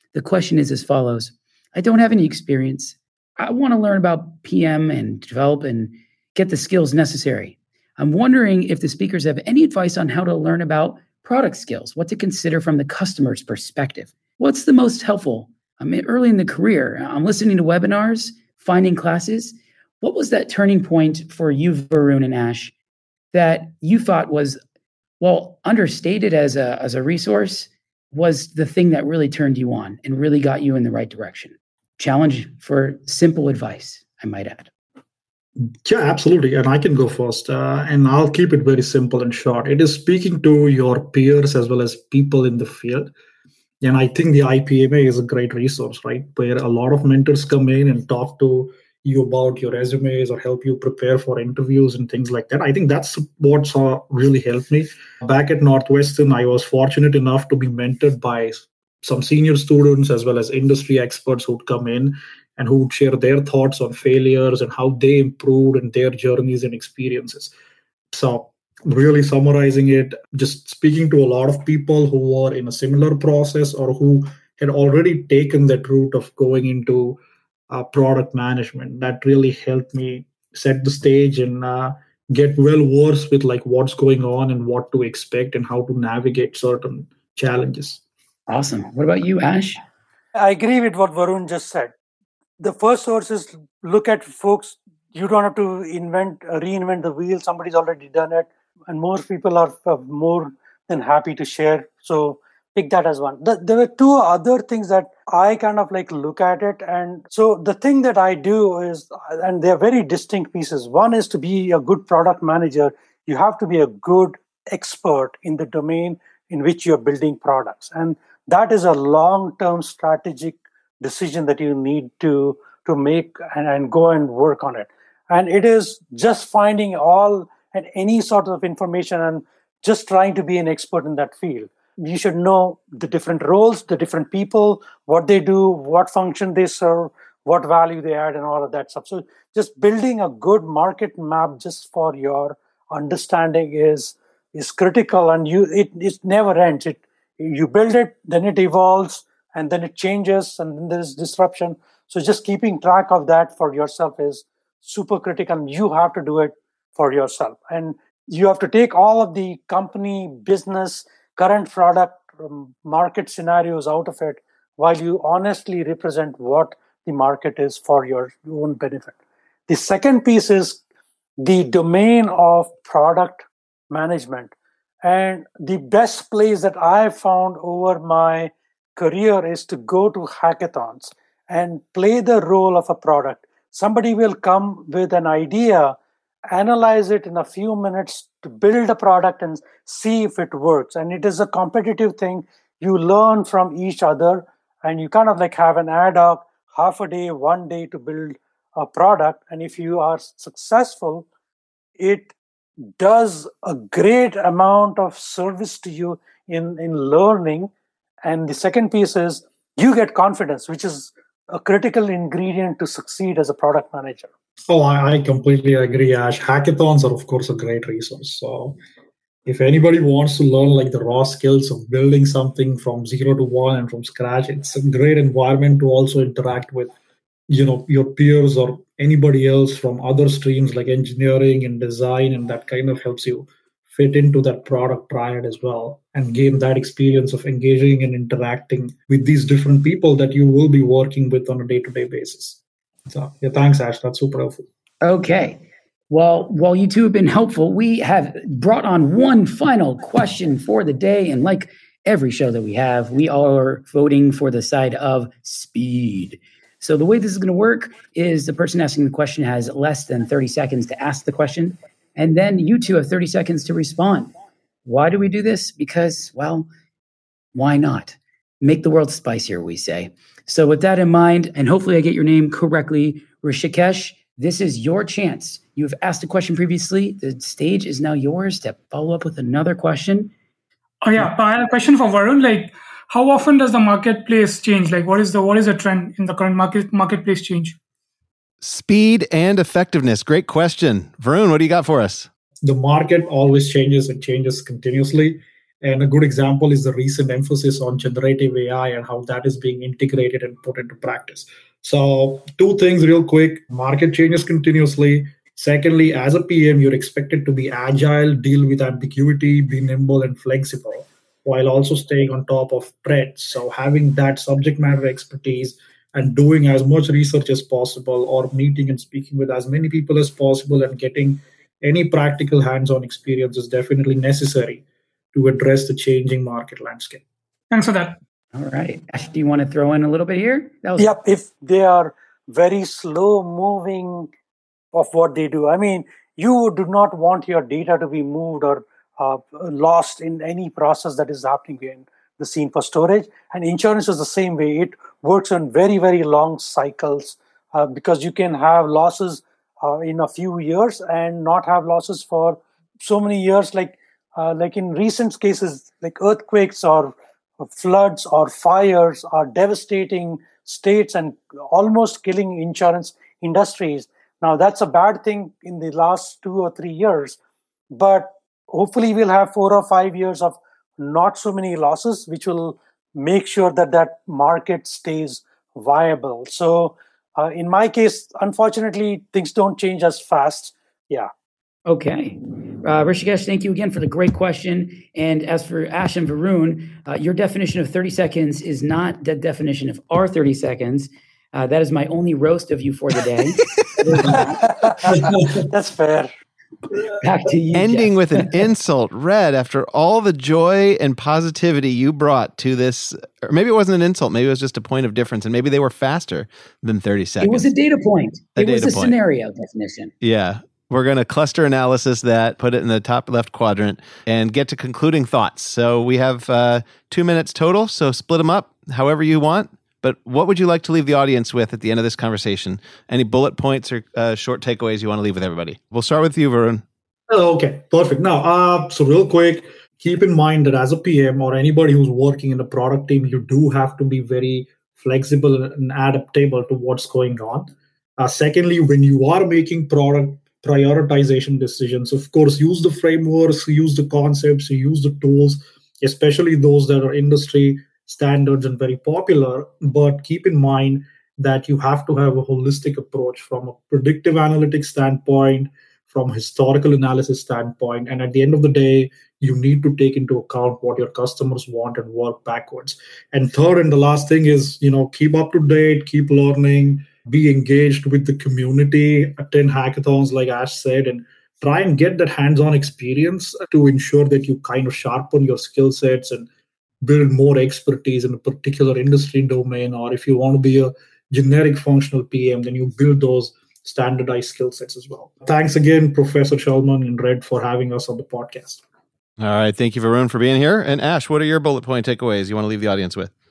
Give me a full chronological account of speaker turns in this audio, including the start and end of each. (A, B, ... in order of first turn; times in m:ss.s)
0:00.1-0:22.7 A
0:23.3-0:24.6 A
0:25.2-0:34.7 A
0:35.8-0:43.1 B
0:43.8-1:07.5 B
1:08.1-1:17.2 B
1:17.7-1:28.0 B
1:28.5-1:29.8 A
1:30.4-1:31.9 C
1:32.6-2:49.2 C
2:49.7-2:50.8 C
2:51.4-3:06.0 C
3:06.5-3:21.2 C
3:22.0-3:22.3 C
3:23.0-3:27.7 C
3:28.2-3:34.3 C
3:34.7-3:38.8 B
3:39.4-3:46.9 B
3:47.5-4:04.6 B
4:05.0-4:24.3 A
4:24.8-4:26.7 A
4:27.5-4:40.3 A
4:41.0-4:47.8 D
4:48.6-4:52.3 E
4:52.6-5:27.2 B
5:27.7-5:28.2 D
5:28.5-5:31.2 A
5:31.0-5:34.3 C
5:34.9-6:07.4 C
6:07.9-6:21.3 C
6:21.9-6:35.3 A
6:34.4-6:36.3 C
6:37.2-6:38.7 A
6:37.7-6:47.7 E
6:47.4-6:50.1 A
6:48.6-6:49.1 E
6:50.2-7:06.8 E
7:07.3-7:56.5 B
7:57.0-8:08.8 B
8:09.4-8:13.3 E